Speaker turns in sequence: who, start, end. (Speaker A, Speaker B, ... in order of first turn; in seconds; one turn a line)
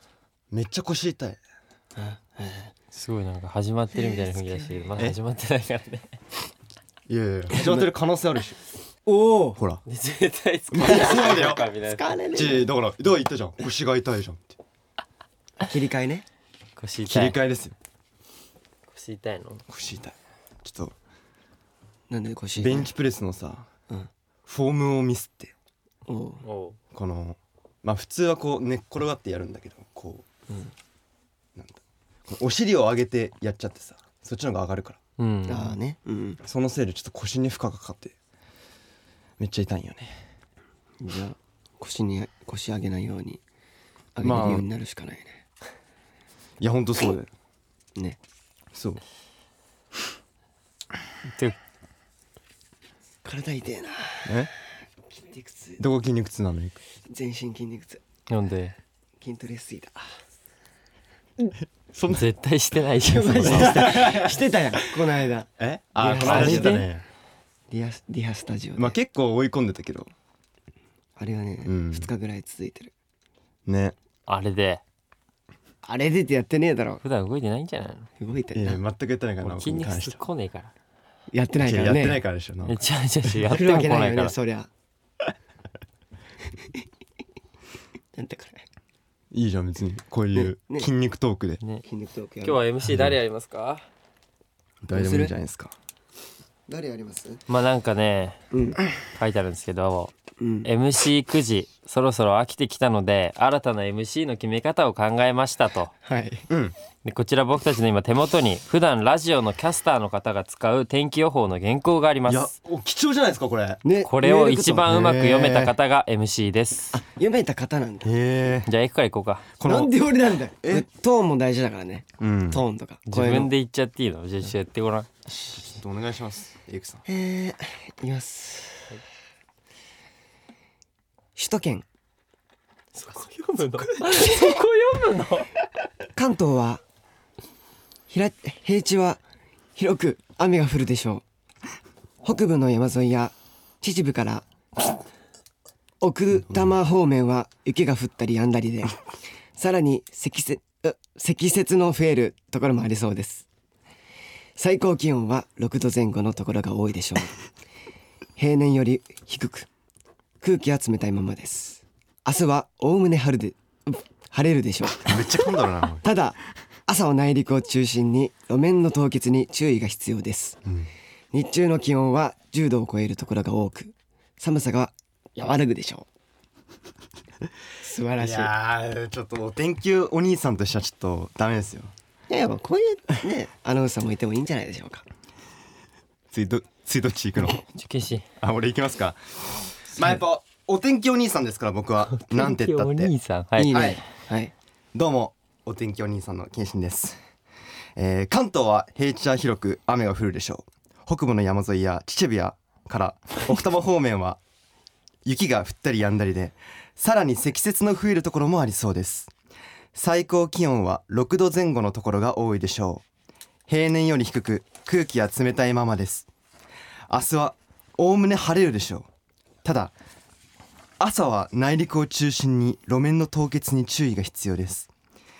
Speaker A: 0.5-1.4
Speaker B: 2.0-2.7
Speaker C: 2.9-6.2
Speaker B: 4.0-4.9
Speaker A: 7.1-8.6
Speaker B: 7.5-7.9
Speaker B: 9.1-9.6
Speaker A: 9.6-9.8
Speaker C: 9.9-12.1
Speaker A: 10.7-11.6
Speaker B: 10.8-12.7
Speaker A: 12.3-14.6
Speaker B: 15.6-16.2
Speaker C: 16.8-17.4
Speaker A: 17.1-17.8
Speaker C: 18.9-19.6
Speaker A: 19.7-20.9
Speaker B: 22.1-22.9
Speaker A: 22.6-23.7
Speaker A: 24.5-25.5
Speaker B: 26.1-26.4
Speaker C: 26.4-26.8
Speaker A: 26.9-30.3
Speaker A: 31.6-35.0
Speaker C: 35.2-35.8
Speaker B: 35.5-36.4
Speaker A: 36.4-38.1
Speaker A: 39.4-40.2
Speaker B: 41.0-43.4
Speaker B: 44.1-45.3
Speaker A: 44.2-44.7
Speaker A: 46.6-47.3
Speaker A: 48.7-49.0
Speaker B: 53.2-54.5
Speaker A: 54.3-54.5
Speaker B: 55.1-55.8
Speaker A: 55.8-56.8
Speaker B: 57.1-58.0
Speaker C: 58.3-58.8
Speaker B: 59.2-60.0
Speaker A: 61.6-62.2
Speaker C: 62.1-63.9
Speaker B: 63.0-66.8
Speaker A: 63.4-64.8
Speaker A: 65.6-67.0
Speaker C: 66.2-66.9
Speaker B: 67.7-69.0
Speaker A: 68.8-70.1
Speaker B: 71.2-72.9
Speaker A: 71.6-72.1
Speaker A: 73.7-74.0
Speaker C: 74.3-74.8
Speaker B: 75.8-77.0
Speaker C: 77.0-78.1
Speaker B: 78.2-78.8
Speaker A: 78.5-80.2
Speaker C: 79.4-80.7
Speaker B: 81.3-82.2
Speaker A: 81.6-82.8
Speaker C: 82.7-84.3
Speaker B: 83.5-84.7
Speaker B: 88.1-88.7
Speaker A: 89.3-91.6
Speaker B: 90.3-90.9
Speaker B: 91.8-92.6
Speaker C: 92.4-93.8
Speaker A: 92.8-93.2
Speaker A: 94.8-95.7
Speaker B: 94.9-95.3
Speaker B: 96.7-97.4
Speaker C: 97.5-98.4
Speaker B: 98.5-98.8
Speaker C: 99.1-100.1
Speaker B: 100.4-100.7
Speaker C: 100.6-105.9
Speaker B: 106.0-106.5
Speaker A: 106.5-106.8
Speaker C: 107.0-112.5
Speaker A: 112.3-113.8
Speaker B: 113.8-115.2
Speaker C: 114.0-117.0
Speaker A: 114.9-115.7
Speaker B: 116.9-118.1
Speaker A: 118.0-118.7
Speaker C: 118.7-119.5
Speaker A: 119.6-119.9
Speaker B: 119.6-123.5
Speaker A: 122.2-122.6
Speaker C: 123.1-125.2
Speaker A: 125.5-127.0
Speaker B: 127.1-128.9
Speaker B: 131.4-131.8
Speaker C: 132.9-135.5
Speaker B: 136.2-136.8
Speaker B: 138.1-139.2
Speaker B: 139.8-141.2
Speaker B: 142.2-144.4
Speaker B: 146.0-149.0
Speaker A: 146.5-146.7
Speaker B: 149.6-153.4
Speaker B: 154.6-157.3
Speaker B: 158.4-159.7
Speaker B: 160.4-165.3
Speaker A: 165.0-166.0
Speaker B: 166.0-170.6
Speaker B: 171.3-176.1
Speaker B: 177.8-178.5
Speaker A: 178.2-181.9
Speaker B: 182.3-185.0
Speaker A: 186.3-187.6
Speaker C: 187.7-188.2
Speaker A: 188.4-193.1
Speaker C: 192.1-193.9
Speaker B: 193.6-194.5
Speaker A: 193.7-194.0
Speaker A: 194.9-197.2
Speaker A: 198.0-204.4
Speaker A: 205.2-209.3
Speaker A: 209.9-213.0
Speaker A: 213.7-216.3
Speaker A: 217.1-219.1
Speaker A: 219.6-219.9
Speaker A: 221.0-224.9